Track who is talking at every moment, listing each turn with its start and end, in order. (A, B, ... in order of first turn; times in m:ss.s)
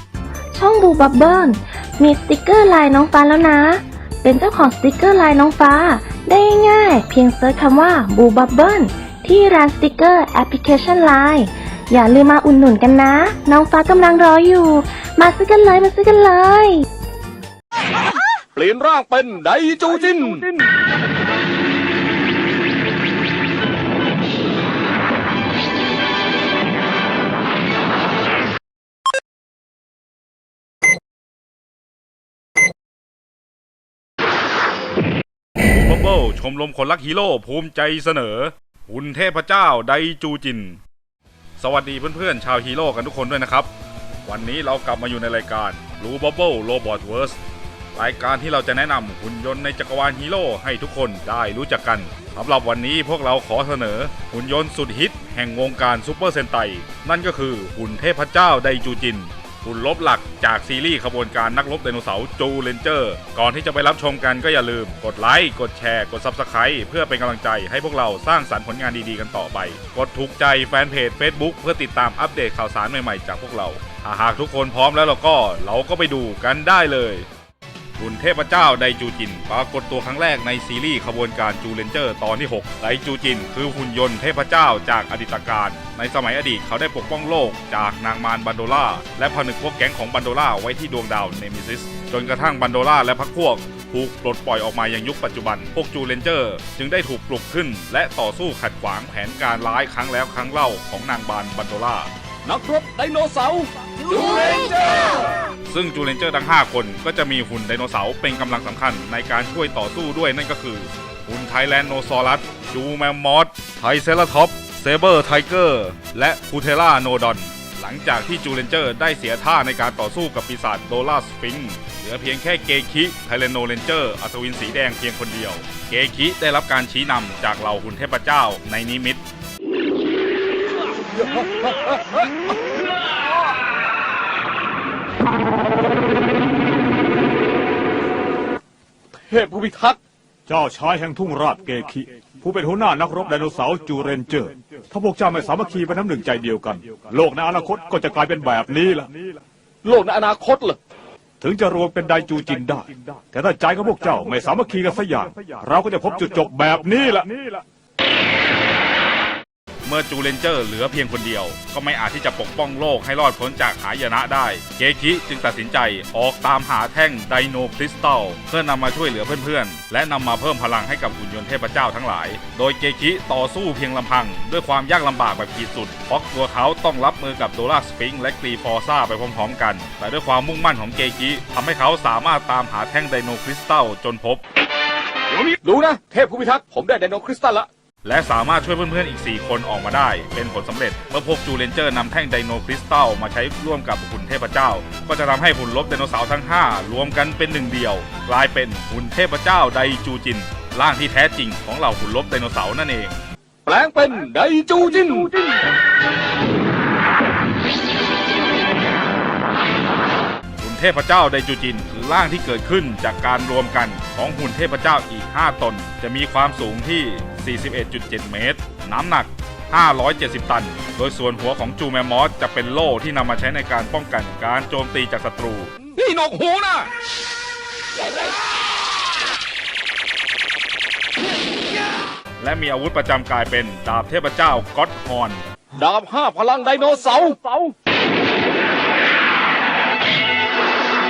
0:00.5-0:16.9 A
0:18.5-0:20.5 B
0:35.6-0:40.8 C
0:41.6-0:43.7 C
0:44.2-0:47.4 C
0:47.9-1:17.3 C
1:18.0-1:42.1 C
1:42.4-1:45.2 B
1:45.7-2:09.2 C
2:11.3-2:11.9 B
2:19.2-2:20.0 B
2:20.5-2:29.1 D
2:29.8-2:30.8 B
2:31.4-2:37.6 D
2:39.8-3:04.4 C
3:05.6-3:07.7 B
3:08.0-3:23.2 C
3:23.7-3:25.3 B
3:30.6-3:45.7 C
3:46.0-3:46.9 B
3:52.4-3:55.4 C
3:55.7-3:57.7 B